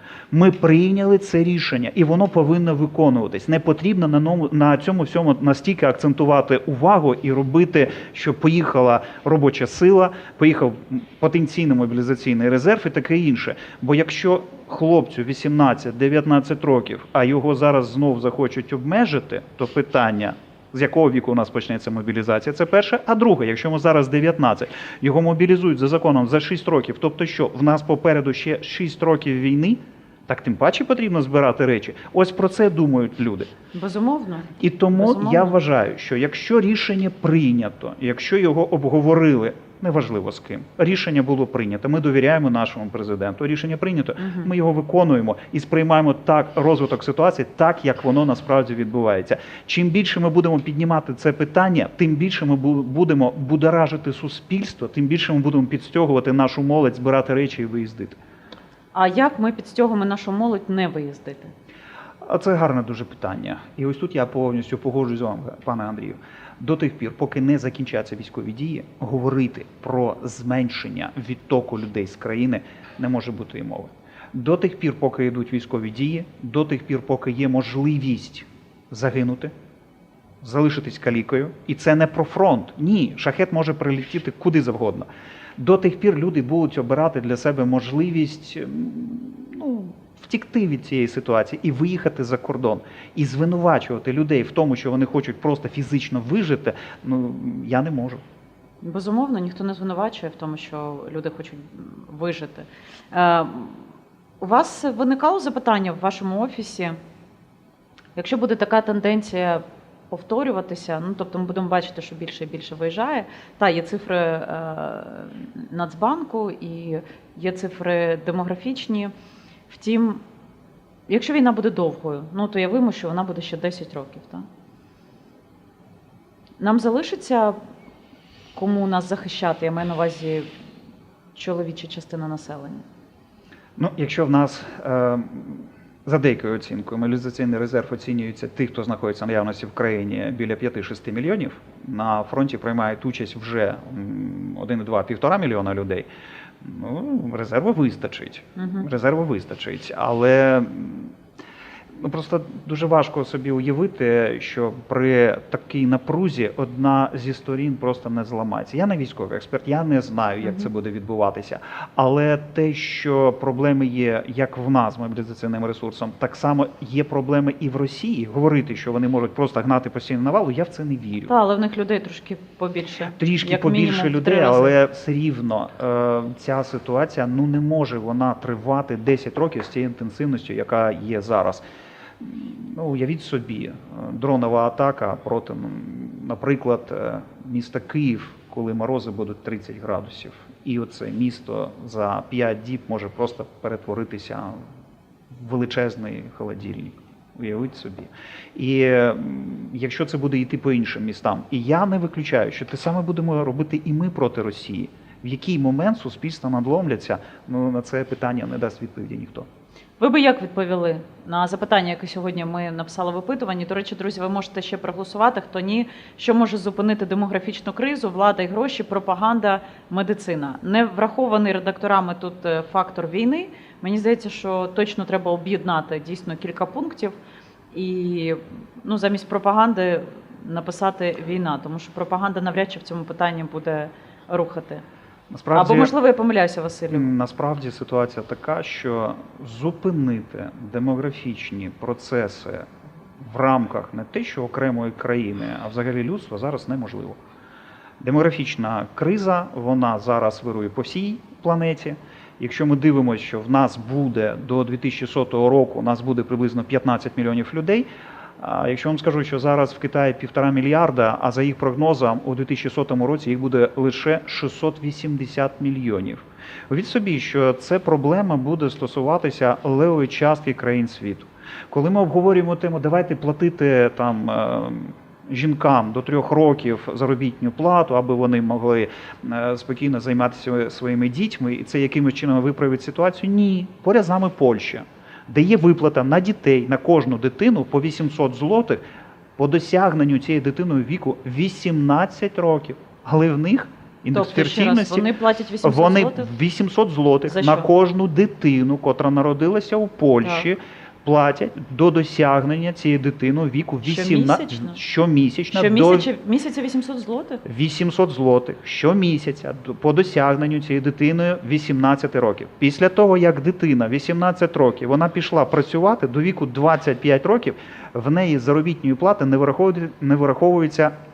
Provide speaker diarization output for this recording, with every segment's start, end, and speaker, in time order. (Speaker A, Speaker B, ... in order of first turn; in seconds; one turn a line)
Speaker A: 0.3-33.5
Speaker B: 33.7-35.5
Speaker A: 34.6-58.2
Speaker B: 44.2-44.5
Speaker B: 58.9-61.5
Speaker A: 62.2-79.5
Speaker A: 80.4-98.2
Speaker B: 98.8-103.9
Speaker B: 104.4-107.0
Speaker B: 108.2-119.1
Speaker B: 119.7-120.2
Speaker B: 121.1-124.4
Speaker B: 126.6-127.6
Speaker B: 128.5-130.5
Speaker B: 131.3-132.8
Speaker A: 133.8-146.1
Speaker A: 146.6-151.1
Speaker B: 148.6-148.8
Speaker A: 152.0-171.3
Speaker B: 160.4-160.7
Speaker B: 171.3-174.7
Speaker A: 173.2-181.6
Speaker A: 182.2-194.6
Speaker A: 195.3-209.5
Speaker B: 210.0-227.1
Speaker B: 227.7-234.8
Speaker A: 235.3-235.9
Speaker B: 235.5-237.1
Speaker A: 236.9-247.2
Speaker A: 248.0-257.9
Speaker A: 258.4-288.8
Speaker A: 289.4-295.1
Speaker B: 294.1-296.3
Speaker A: 295.6-306.1
Speaker B: 297.2-297.7
Speaker B: 303.8-304.8
Speaker B: 305.5-307.4
Speaker A: 307.4-320.9